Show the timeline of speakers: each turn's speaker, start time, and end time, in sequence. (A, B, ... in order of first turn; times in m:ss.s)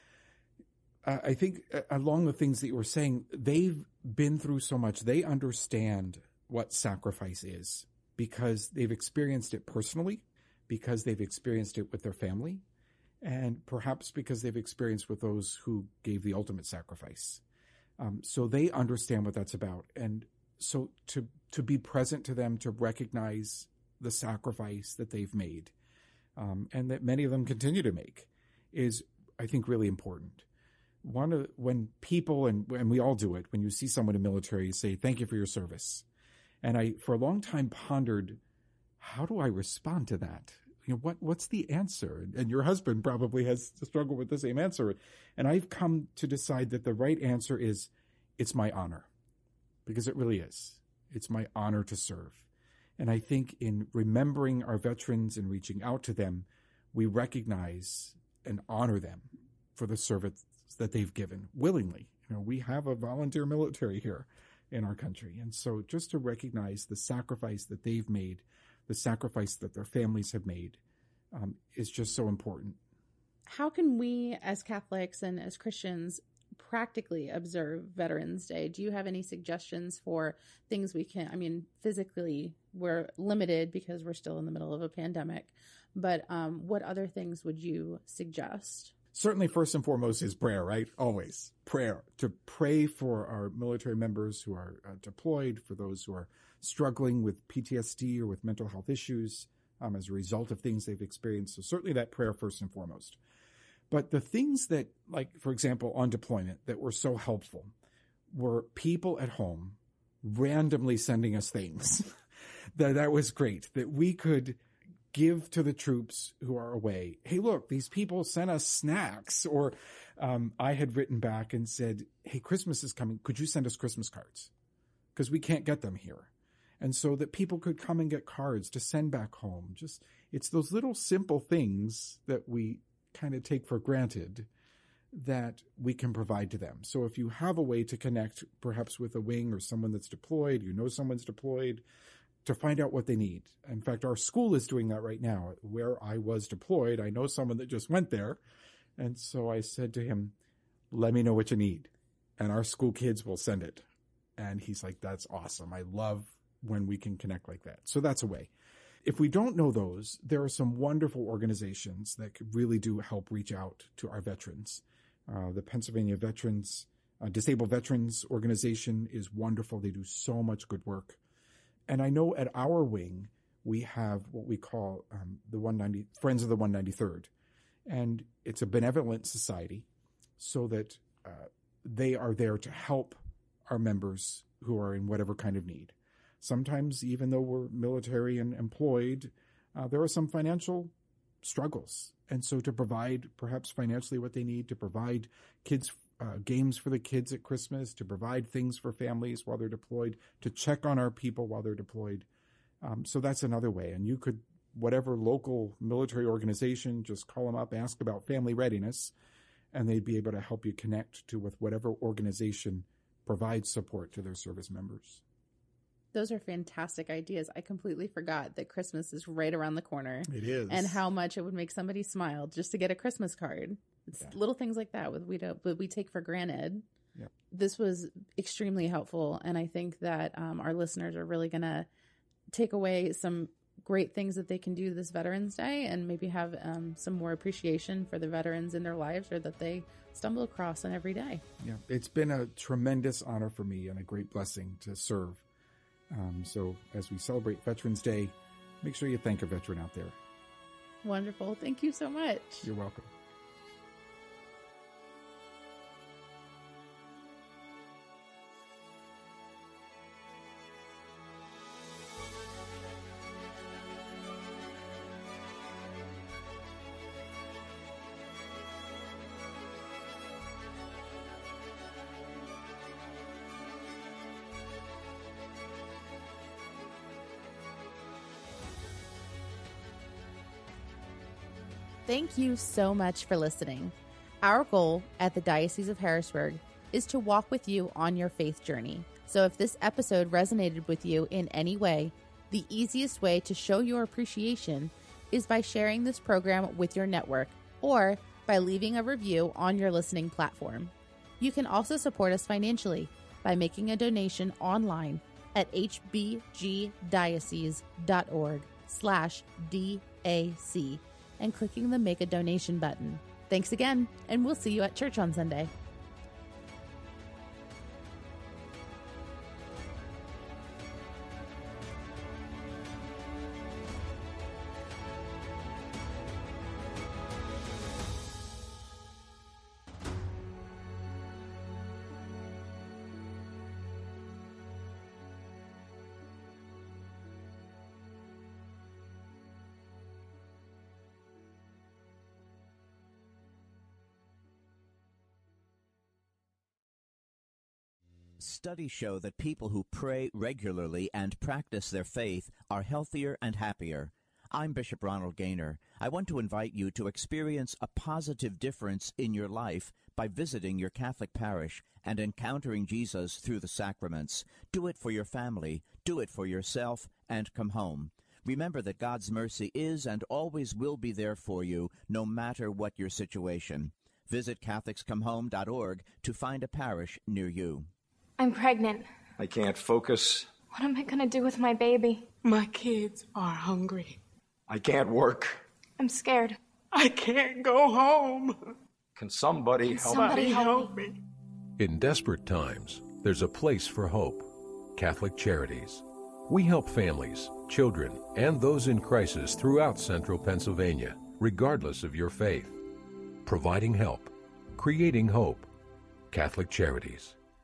0:01.0-0:12.6 A
0:13.2-0:17.4 A
0:18.0-0:25.7 A
0:26.4-0:30.5 A
0:31.0-0:36.0 A
0:36.6-0:38.4 A
0:39.0-0:49.1 A
0:49.9-1:10.8 A
1:11.3-1:12.8 A
1:13.5-1:28.9 B
1:29.1-1:43.2 A
1:43.9-1:47.7 A
1:48.3-1:52.1 A
1:52.7-1:54.6 A
1:55.1-2:04.5 A
2:05.2-2:14.5 A
2:15.1-2:21.8 A
2:22.4-2:28.4 A
2:29.0-2:30.4 A
2:30.9-2:33.9 A
2:34.4-2:38.5 A
2:39.0-2:51.2 A
2:51.9-2:57.3 A
2:57.9-2:59.9 A
3:00.4-3:22.3 A
3:22.8-3:29.1 A
3:29.7-3:35.2 A
3:36.1-3:46.8 B
3:40.3-3:41.0 A
3:47.5-3:51.9 B
3:52.5-4:01.4 B
4:01.6-4:05.4 A
4:06.1-4:10.2 A
4:11.0-4:12.7 B
4:12.6-4:13.1 A
4:42.1-5:15.7 B
5:48.4-6:17.9 C
6:18.4-6:19.1 D
6:19.4-6:20.5 E
6:20.7-6:22.3 D
6:22.4-6:24.2 F
6:24.7-6:25.6 E
6:26.0-6:26.6 D
6:26.9-6:28.8 F
6:29.2-6:30.4 E
6:29.9-6:31.2 F
6:30.1-6:30.9 D
6:31.8-6:42.8 G
6:43.4-6:45.7 G
6:46.3-6:47.4 G